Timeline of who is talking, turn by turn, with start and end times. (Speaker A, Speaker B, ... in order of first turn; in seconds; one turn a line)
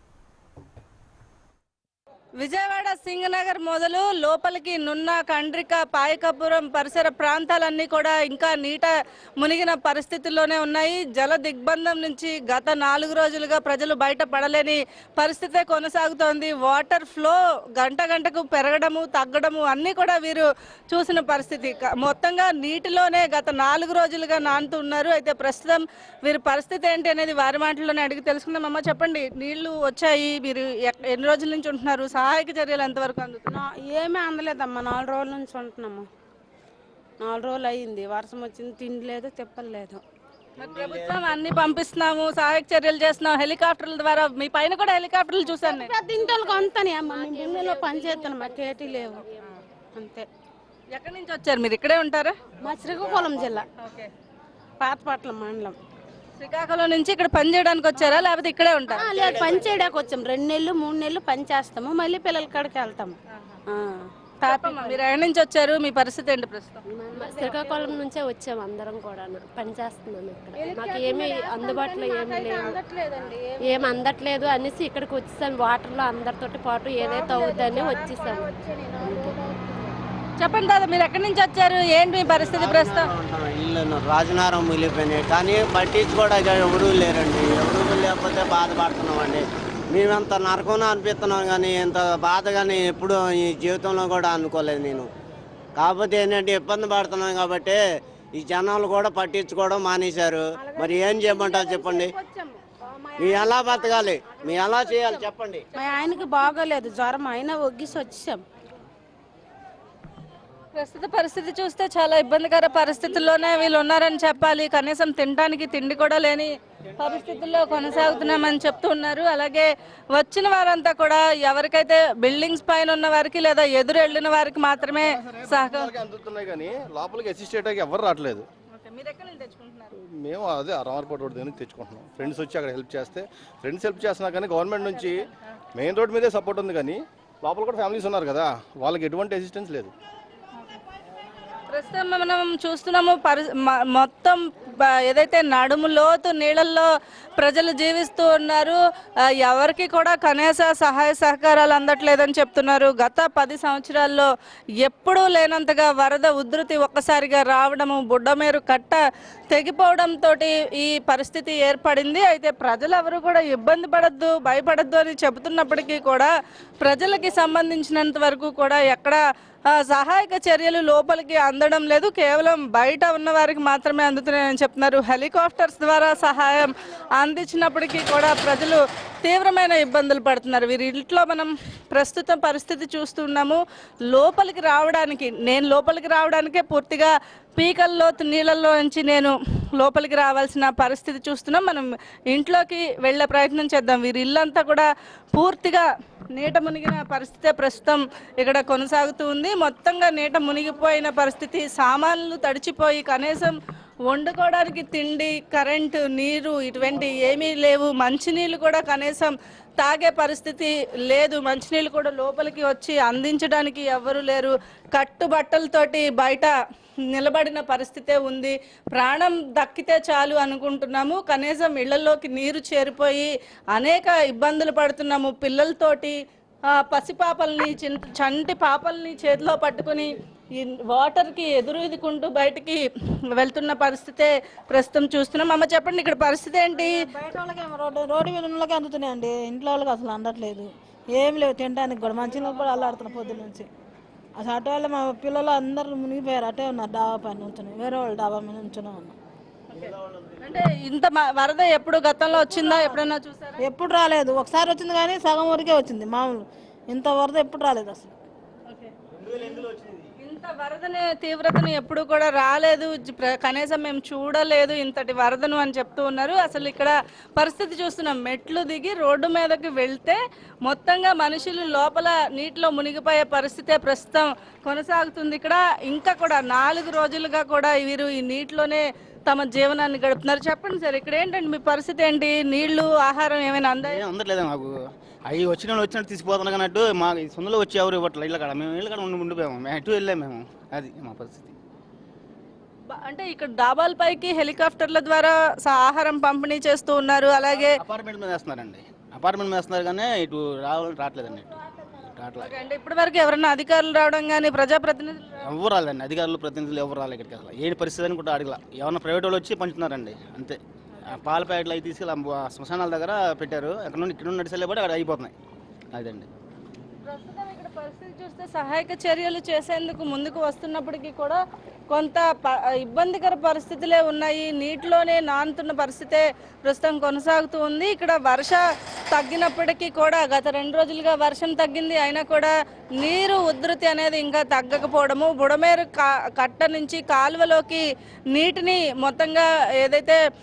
Speaker A: 2.4-33.5
Speaker B: 33.5-36.0
Speaker B: 37.2-40.0
Speaker A: 40.6-45.9
Speaker C: 40.7-41.1
Speaker B: 45.6-49.2
Speaker D: 46.2-49.5
Speaker B: 49.9-50.3
Speaker A: 50.9-52.3
Speaker B: 52.6-53.6
Speaker A: 53.8-54.1
Speaker B: 54.8-55.8
Speaker A: 56.4-59.3
Speaker D: 58.9-60.2
Speaker B: 59.0-63.1
Speaker B: 63.7-65.0
Speaker A: 64.4-66.8
Speaker D: 67.1-72.7
Speaker B: 67.3-68.0
Speaker B: 70.6-73.6
Speaker D: 73.6-78.5
Speaker B: 77.0-80.0
Speaker D: 79.0-79.3
Speaker A: 80.4-83.1
Speaker C: 82.2-95.1
Speaker C: 95.8-97.8
Speaker C: 98.3-102.1
Speaker B: 100.6-105.2
Speaker C: 103.2-105.6
Speaker B: 105.8-108.4
Speaker A: 110.8-125.9
Speaker E: 125.1-128.4
Speaker A: 128.7-129.9
Speaker E: 130.0-135.2
Speaker E: 135.7-139.9
Speaker A: 141.7-148.8
Speaker A: 149.4-154.3
Speaker A: 154.8-159.0
Speaker A: 159.5-169.2
Speaker A: 169.7-183.6
Speaker A: 184.1-203.5
Speaker A: 204.1-216.5
Speaker A: 217.1-226.2
Speaker A: 226.7-232.8
Speaker A: 233.3-237.0
Speaker F: 236.7-243.7
Speaker F: 244.4-249.2
Speaker A: 249.7-253.6
Speaker F: 253.6-258.1
Speaker A: 258.7-284.0
Speaker G: 283.9-284.7
Speaker G: 285.2-291.6
Speaker A: 292.9-297.8
Speaker G: 297.8-301.5
Speaker G: 302.1-302.5
Speaker A: 302.4-305.4
Speaker G: 305.4-315.3
Speaker G: 315.9-316.3
Speaker A: 317.1-321.4
Speaker A: 321.9-340.2